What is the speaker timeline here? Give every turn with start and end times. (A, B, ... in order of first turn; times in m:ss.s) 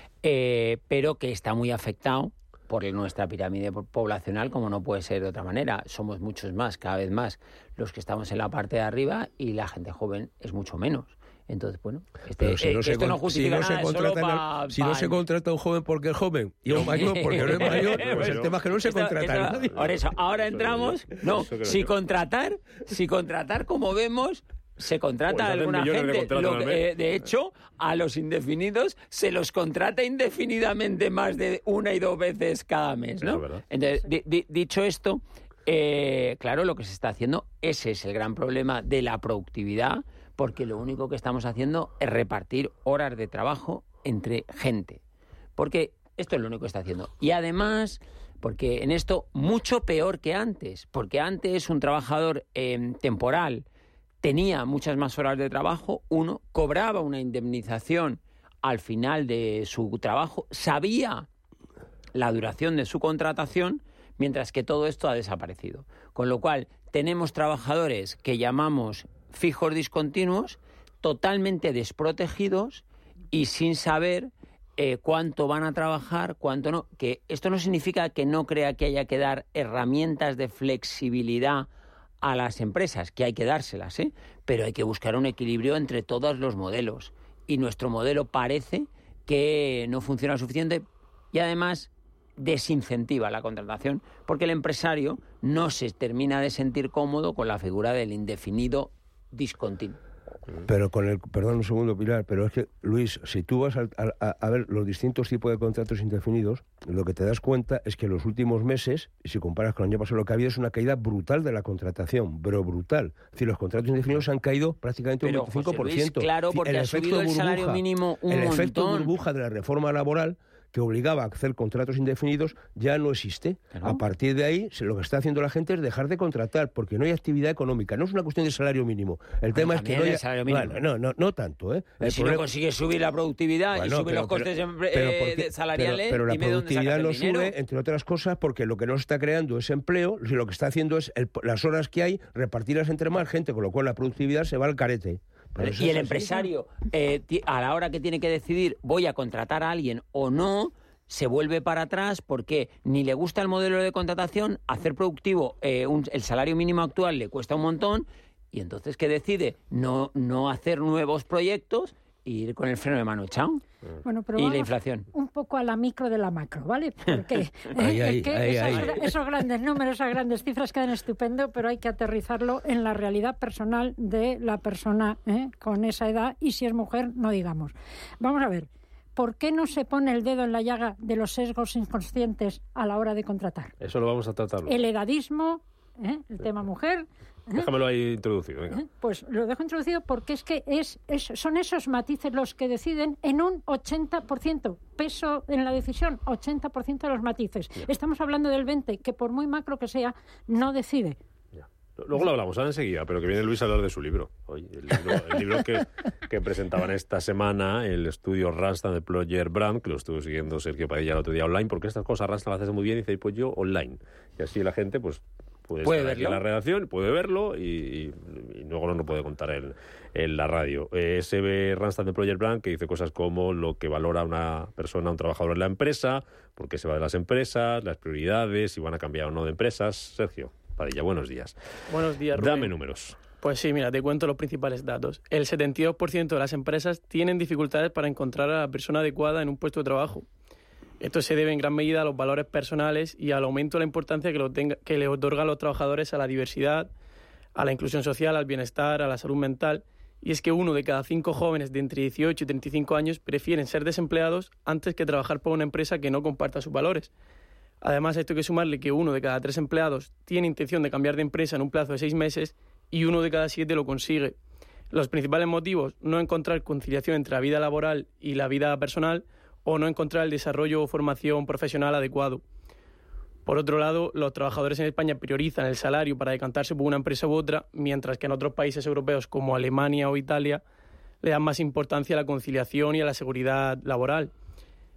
0:00.2-0:15.2 A
0:12.4-0:19.7 B
0:16.7-0:18.7 C
0:16.7-0:45.0 A
0:19.7-0:21.9 C
0:25.3-0:26.9 C
0:33.2-0:33.6 C
0:45.6-0:53.6 A
0:54.2-1:01.3 A
1:02.2-1:21.7 A
1:22.2-1:40.0 A
1:40.6-2:12.4 B
1:55.2-1:59.1 A
2:03.7-2:04.0 A
2:09.5-2:10.8 A
2:12.0-2:17.5 A
2:13.7-2:26.3 B
2:25.6-2:43.6 A
2:44.0-3:03.7 D
2:44.4-2:45.1 A
2:47.8-2:49.1 B
3:03.8-3:04.8 C
3:04.7-3:07.7 D
3:07.5-3:08.8 C
3:08.7-3:21.2 D
3:21.6-3:51.6 C
3:35.8-3:36.4 A
3:51.9-3:52.7 E
3:52.3-3:53.2 C
3:53.4-4:00.3 E
4:01.0-4:06.9 E
4:07.6-4:17.1 E
4:17.8-4:24.4 E
4:24.9-4:32.4 E
4:33.5-4:40.6 E
4:41.2-4:44.3 E